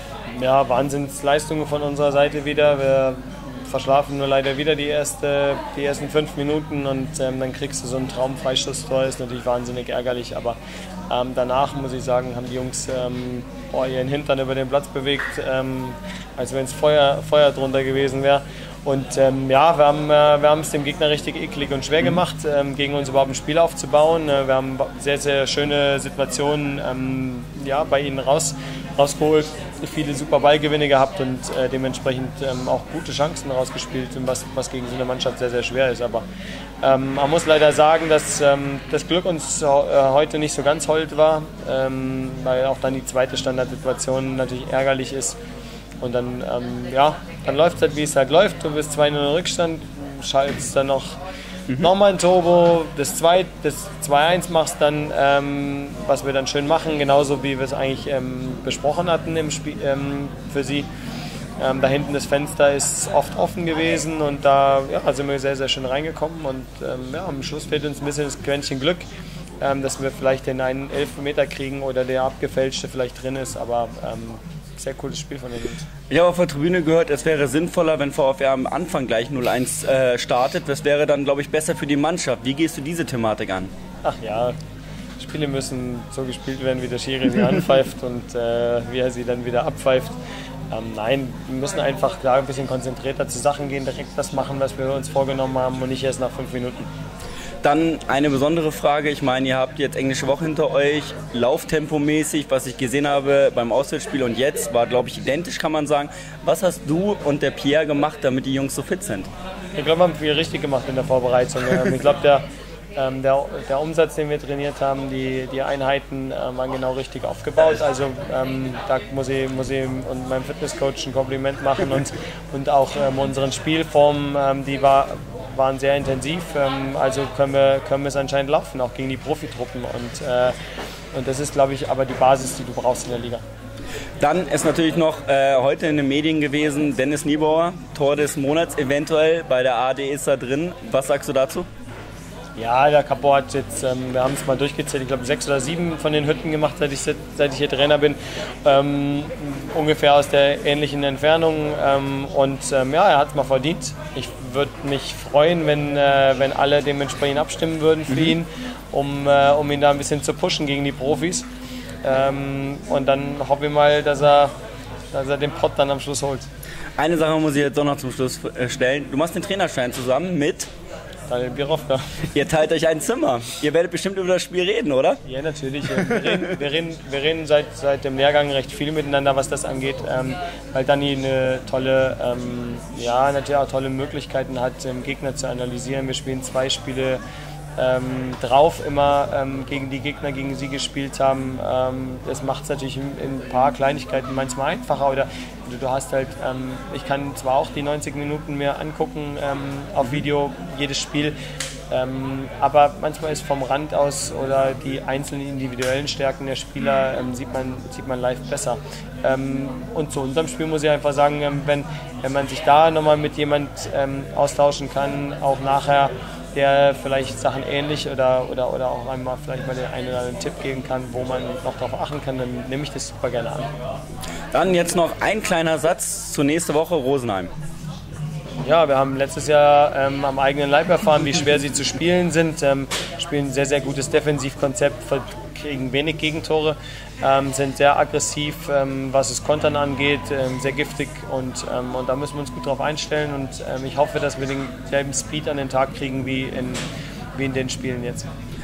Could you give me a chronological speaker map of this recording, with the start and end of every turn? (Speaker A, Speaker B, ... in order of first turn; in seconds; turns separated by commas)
Speaker A: 0.3-10.6, Speaker A: 11.1-36.2, Speaker A: 36.8-45.4, Speaker A: 46.0-51.2, Speaker A: 51.7-60.9, Speaker A: 61.6-69.0, Speaker A: 69.6-75.9, Speaker B: 76.1-83.7, Speaker A: 84.0-84.6, Speaker A: 85.2-90.2, Speaker A: 90.7-96.9, Speaker B: 97.6-109.3, Speaker A: 109.8-130.6, Speaker A: 131.1-133.4, Speaker B: 134.2-141.7, Speaker A: 142.6-161.5, Speaker A: 162.0-164.5, Speaker A: 165.1-166.5, Speaker B: 167.0-170.7, Speaker A: 171.3-172.2, Speaker B: 172.3-175.2, Speaker A: 175.2-187.2, Speaker A: 187.8-201.3, Speaker A: 201.9-223.7, Speaker B: 224.5-227.5, Speaker A: 228.6-246.8, Speaker A: 247.3-248.3